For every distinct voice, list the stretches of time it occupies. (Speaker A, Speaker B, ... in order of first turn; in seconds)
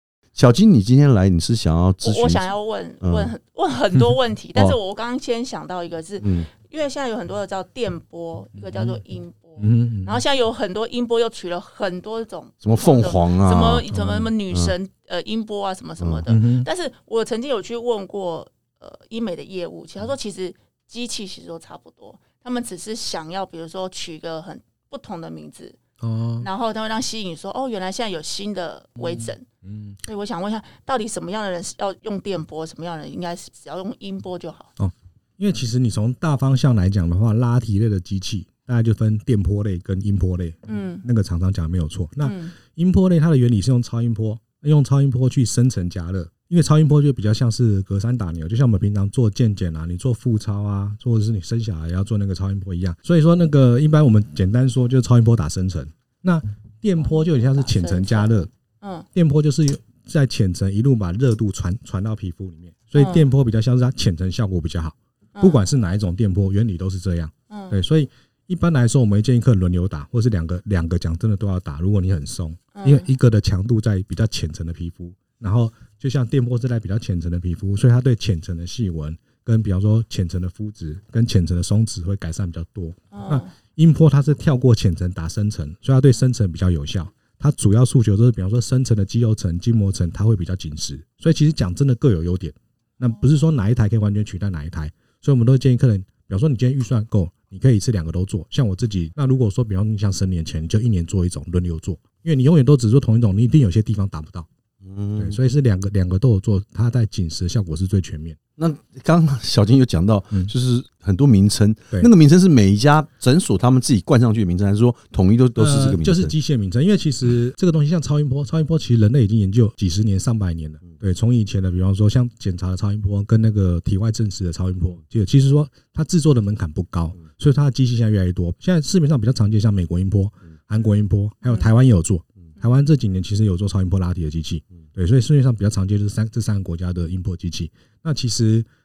Speaker A: 0.3-2.5, 3.0-3.3, 6.2-6.5, 12.6-13.9, 104.8-105.4, 108.6-116.3
Speaker B: 2.0-25.8, 26.4-29.4, 30.0-34.7, 40.7-41.0, 42.2-42.5, 57.0-59.1, 63.0-63.3, 65.3-65.6, 67.5-67.8, 72.7-73.1, 83.1-83.5, 131.4-131.7
Speaker C: 8.7-9.0, 9.6-10.2, 13.9-14.3, 16.3-16.7, 26.0-26.5, 29.0-30.0, 34.8-58.5, 59.1-104.5, 105.2-108.4, 115.6-138.7